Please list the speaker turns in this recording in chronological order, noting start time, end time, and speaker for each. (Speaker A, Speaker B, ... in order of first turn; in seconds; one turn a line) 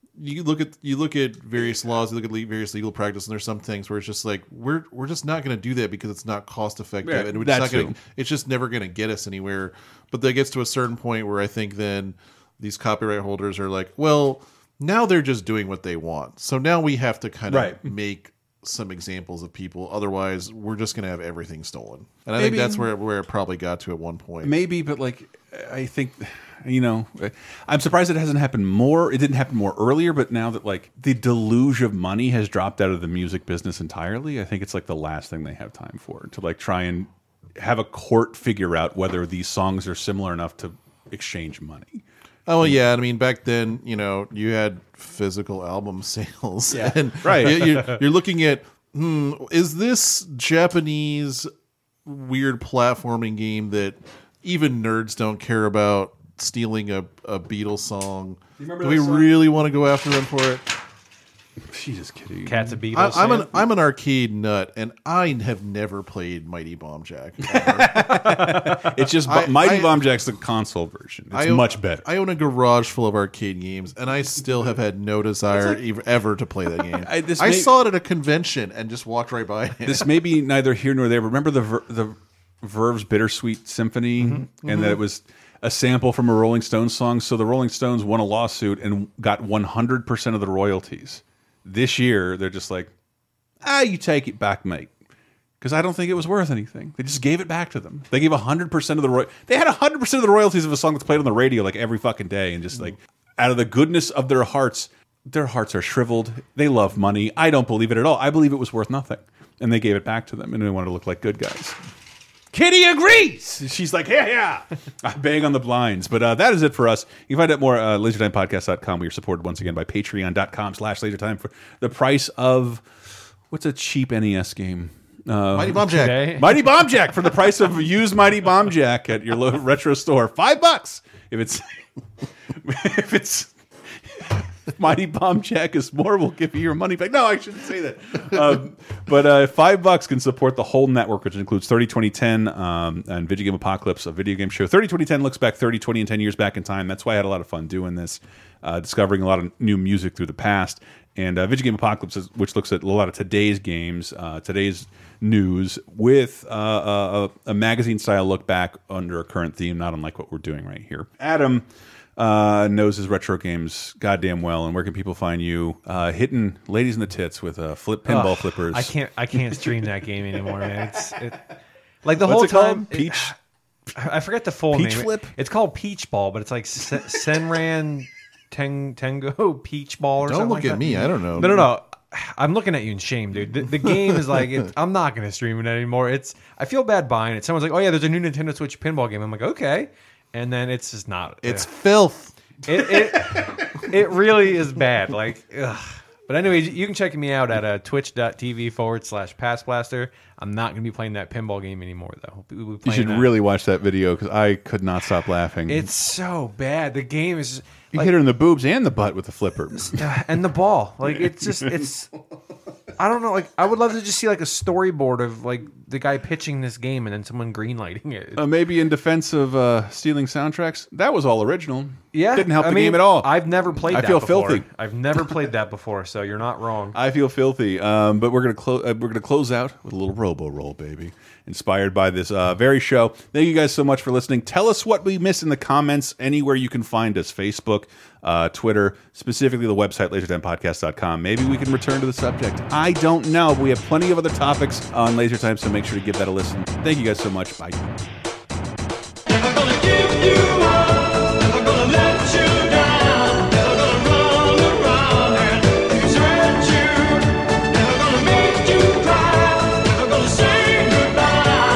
Speaker A: 0.2-24.6
Speaker B: 7.0-8.0
Speaker B: 17.5-17.9
Speaker B: 22.4-22.9
Speaker B: 24.4-42.0
Speaker A: 42.5-51.5
Speaker B: 46.7-48.0
Speaker A: 52.0-60.8
Speaker B: 58.6-59.4
Speaker B: 61.7-62.8
Speaker C: 62.5-63.6
Speaker A: 62.9-68.1
Speaker B: 67.4-72.1
Speaker A: 69.2-70.0
Speaker A: 71.3-80.1
Speaker B: 75.5-75.8
Speaker B: 77.0-77.7
Speaker B: 79.9-92.9
Speaker A: 84.6-85.0
Speaker B: 93.6-94.9
Speaker B: 95.6-111.8
Speaker B: 112.5-122.8
Speaker B: 123.5-131.8
Speaker A: 125.5-126.4
Speaker C: 125.9-126.5
Speaker B: 132.6-133.5
Speaker B: 134.1-161.7
Speaker B: 162.2-168.9
Speaker C: 168.1-171.5
Speaker C: 172.0-173.3
Speaker B: 172.2-173.3
Speaker C: 174.0-191.7
Speaker B: 174.7-175.3
Speaker A: 180.2-181.6
Speaker A: 191.4-192.7
Speaker C: 192.7-203.3
Speaker B: 202.8-205.9
Speaker C: 205.7-208.1
Speaker B: 207.9-210.1
Speaker C: 209.8-212.1
Speaker B: 211.2-211.9
Speaker C: 213.0-218.5
Speaker B: 218.4-223.3
Speaker C: 222.1-227.0
Speaker B: 223.9-224.7
Speaker B: 226.9-248.1
Speaker C: 249.7-250.8
Speaker C: 251.8-253.2
Speaker C: 253.9-257.2
Speaker C: 258.2-261.1